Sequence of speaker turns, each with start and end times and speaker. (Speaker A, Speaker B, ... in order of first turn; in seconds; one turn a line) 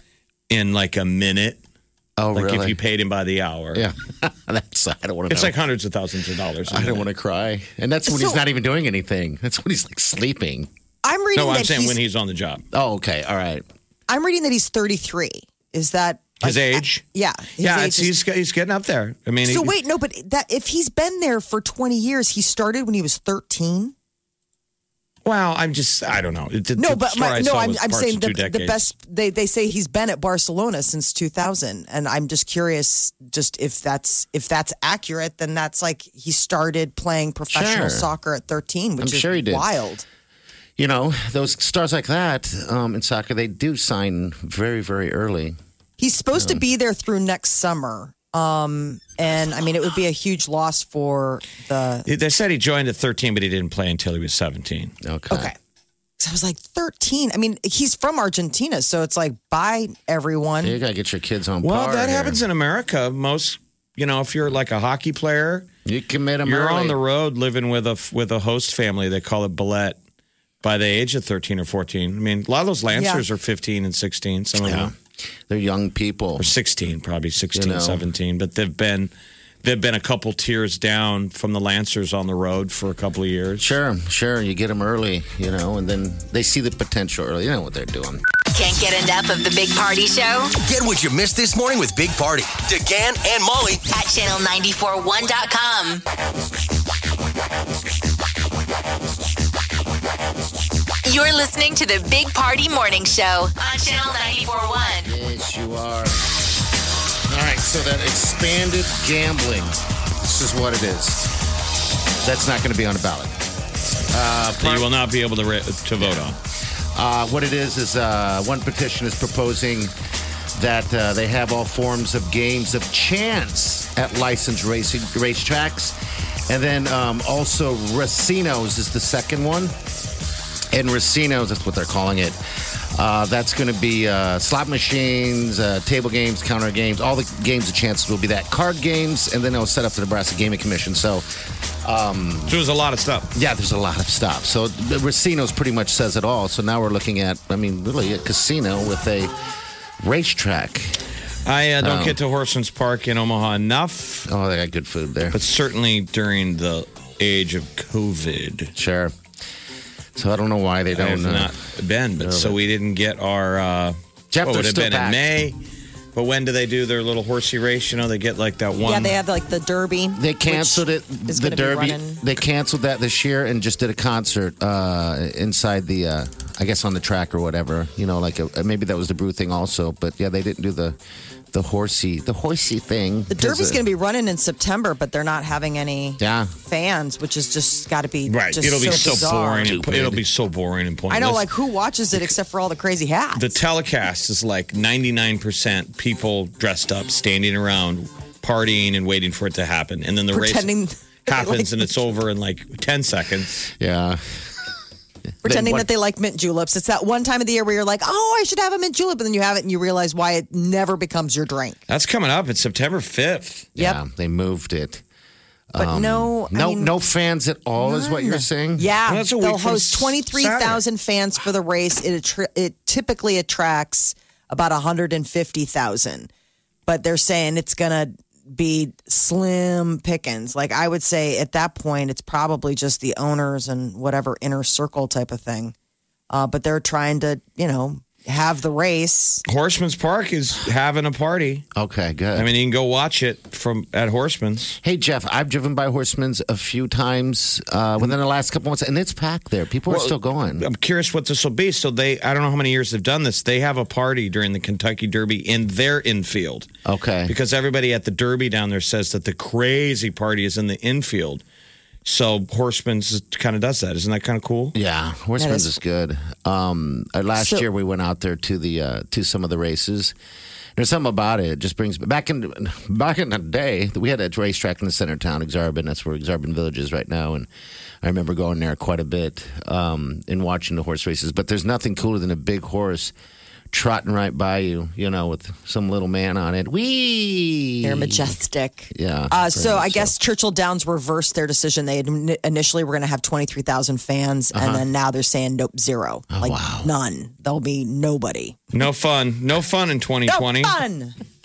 Speaker A: 0.5-1.6
Speaker B: 2.2-2.8
Speaker A: 2.4-3.8
Speaker B: 3.7-5.6
Speaker A: 5.3-7.1
Speaker B: 6.7-10.7
Speaker C: 8.1-8.4
Speaker C: 11.0-12.0
Speaker A: 11.4-12.6
Speaker B: 12.7-13.6
Speaker C: 14.1-18.1
Speaker A: 16.4-17.0
Speaker A: 17.6-19.8
Speaker C: 19.4-23.9
Speaker A: 25.2-28.9
Speaker C: 26.8-40.0
Speaker B: 37.5-38.1
Speaker B: 39.0-39.7
Speaker B: 40.8-45.6
Speaker C: 46.0-52.1
Speaker B: 46.4-46.6
Speaker A: 52.1-54.9
Speaker B: 55.0-55.5
Speaker C: 55.3-55.6
Speaker C: 56.2-60.8
Speaker B: 60.6-62.4
Speaker A: 61.6-65.7
Speaker B: 65.8-67.0
Speaker A: 66.5-70.0
Speaker A: 70.6-74.9
Speaker C: 72.9-73.2
Speaker B: 74.6-75.0
Speaker B: 75.5-76.5
Speaker A: 76.4-79.1
Speaker B: 77.5-78.0
Speaker A: 79.6-83.7
Speaker B: 83.6-88.2
Speaker D: 88.5-90.5
Speaker E: 90.6-93.8
Speaker D: 93.9-96.0
Speaker D: 101.0-105.1
Speaker B: 105.0-106.2
Speaker B: 107.3-111.3
Speaker B: 112.2-113.3
Speaker B: 114.1-114.9
Speaker A: 114.6-116.4
Speaker B: 116.0-116.4
Speaker B: 116.9-119.9
Speaker B: 120.5-126.0
Speaker B: 126.5-129.8
Speaker B: 130.7-141.3
Speaker B: 141.8-142.6
Speaker A: 142.5-143.3
Speaker B: 143.3-149.3
Speaker B: 150.0-151.0
Speaker A: 151.5-154.3
Speaker B: 151.8-152.2
Speaker B: 154.3-155.4
Speaker A: 155.3-158.7
Speaker B: 158.8-159.2
Speaker B: 160.2-161.5
Speaker A: 160.9-165.6
Speaker B: 162.2-162.6
Speaker B: 164.3-165.2
Speaker A: 166.2-169.2
Speaker C: 168.8-172.2
Speaker B: 170.2-181.0
Speaker B: 181.5-183.8
Speaker C: 183.3-189.7
Speaker B: 186.2-186.5
Speaker A: 188.3-191.5
Speaker B: 188.9-190.2
Speaker C: 191.1-193.6
Speaker A: 193.4-200.7
Speaker C: 200.3-202.1
Speaker A: 201.3-203.7
Speaker B: 203.7-204.4
Speaker B: 205.4-205.9
Speaker C: 205.4-211.8
Speaker A: 211.9-213.7
Speaker B: 213.8-215.0
Speaker B: 215.7-218.9
Speaker C: 215.8-216.9
Speaker C: 217.8-226.3
Speaker A: 219.1-220.8
Speaker C: 226.9-235.7
Speaker C: 236.3-239.4
Speaker A: 239.5-241.7
Speaker B: 241.8-242.5
Speaker A: 242.4-244.8
Speaker B: 244.8-250.7
Speaker A: 249.9-256.7
Speaker B: 256.9-257.3
Speaker A: 257.3-261.4
Speaker A: 262.1-264.8
Speaker B: 264.7-270.1
Speaker C: 265.4-265.8
Speaker C: 267.4-267.7
Speaker B: 270.8-277.5
Speaker B: 278.0-283.1
Speaker B: 283.7-288.3
Speaker C: 287.8-298.6
Speaker B: 288.9-290.1
Speaker B: 294.5-294.9
Speaker B: 296.3-296.9
Speaker A: 298.7-300.8
Speaker C: 300.3-301.1